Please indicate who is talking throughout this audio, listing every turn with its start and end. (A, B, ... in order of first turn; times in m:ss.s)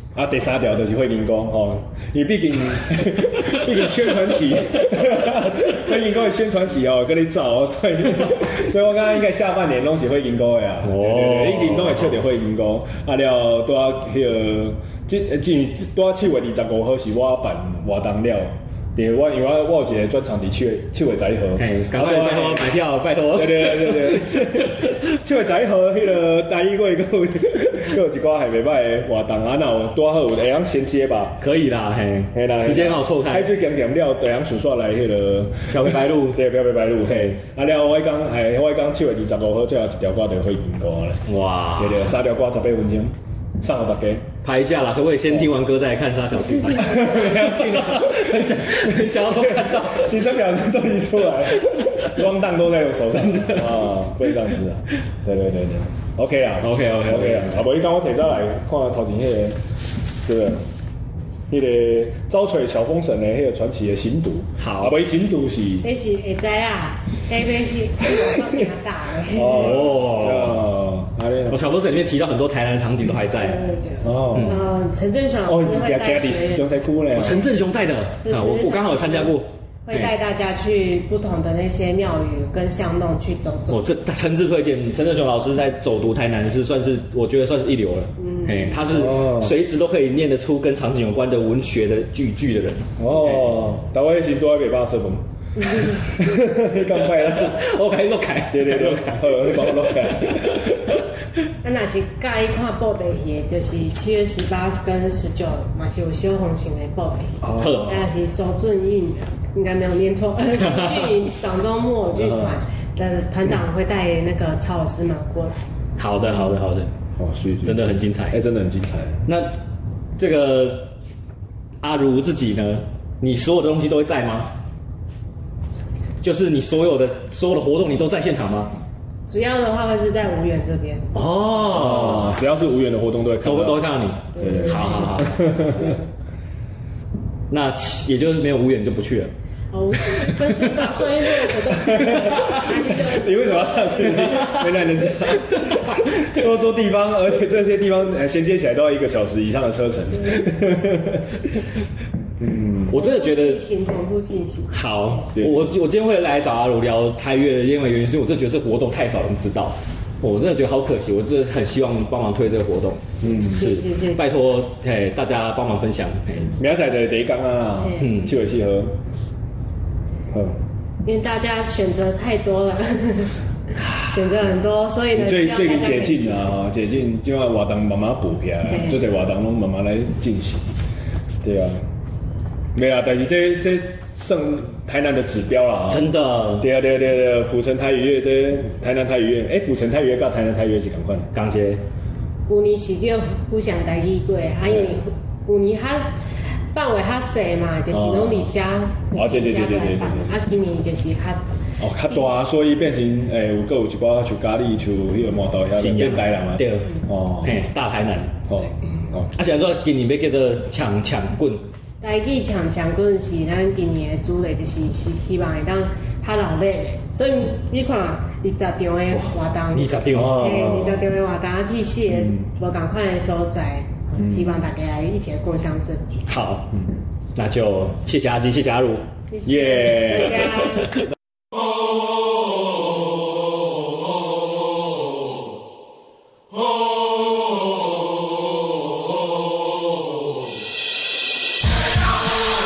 0:00.1-0:22.7 A
0:10.8-0:12.1 B
0:21.6-0:24.9 B
0:23.3-0:31.4 A
0:31.4-0:33.5 B
0:32.3-0:41.2 A
0:35.7-0:36.4 B
0:41.3-0:42.1 B
0:41.7-0:44.3 A
0:44.4-0:50.2 B
0:46.7-0:59.6 A
0:53.3-0:53.7 B
0:56.6-0:57.5 B
1:00.2-1:00.6 A
1:01.5-1:05.9 A
1:04.6-1:04.9 B
1:05.8-1:09.9 C
1:09.3-1:11.6 A
1:09.4-1:10.6 B
1:11.5-1:13.6 B
1:13.3-1:16.6 C
1:14.0-1:14.6 A
1:15.4-1:17.5 A
1:17.1-1:20.1 B
1:18.2-1:23.8 C
1:23.7-1:33.4 B
1:28.2-1:28.8 C
1:28.9-1:29.5 A
1:33.0-1:37.7 A
1:37.1-1:41.0 B
1:38.5-1:40.9 A
1:41.6-1:55.7 C
1:47.4-1:47.9 A
1:47.5-1:48.1 B
1:50.6-1:51.1 B
1:52.2-1:52.5 B
1:56.0-1:56.9 B
1:57.2-1:59.2 A
1:57.6-1:58.4 B
1:59.3-1:59.6 B
2:00.2-2:00.9 B
2:01.8-2:04.5 B
2:06.2-2:08.8 B
2:09.3-2:11.1 C
2:11.1-2:12.3 B
2:11.7-2:13.9 A
2:13.4-2:15.5 B
2:14.4-2:16.0 C
2:14.4-2:15.9 A
2:17.5-2:19.3 B
2:19.7-2:24.5 C
2:21.8-2:31.4 A
2:22.2-2:22.5 B
2:32.4-2:32.9 A
2:32.9-2:35.0 C
2:32.9-2:33.6 B
2:34.7-2:46.6 B
2:35.4-2:35.7 A
2:43.2-2:43.7 A
2:43.3-2:44.3 C
2:46.5-2:49.0 A
2:47.8-2:48.1 C
2:48.0-2:48.3 B
2:50.3-2:50.6 A
2:51.0-2:53.3 C
2:54.0-2:56.5 C
2:55.1-3:00.7 A
3:01.4-3:01.8 A
3:02.7-3:11.3 A
3:05.9-3:06.7 B
3:11.3-3:11.8 B
3:12.5-3:16.2 C
3:14.7-3:15.0 A
3:16.7-3:21.6 C
3:17.9-3:18.5 A
3:19.1-3:20.4 A
3:21.8-3:27.6 A
3:25.8-3:28.4 B
3:28.5-3:29.4 A
3:29.4-3:31.6 B
3:32.0-3:46.2 C
3:39.7-3:40.9 B
3:40.1-3:41.0 A
3:42.1-3:42.4 A
3:44.2-3:44.6 A
3:46.3-3:46.7 B
3:47.4-3:49.1 B
3:49.3-3:50.9 C
3:49.4-3:50.6 A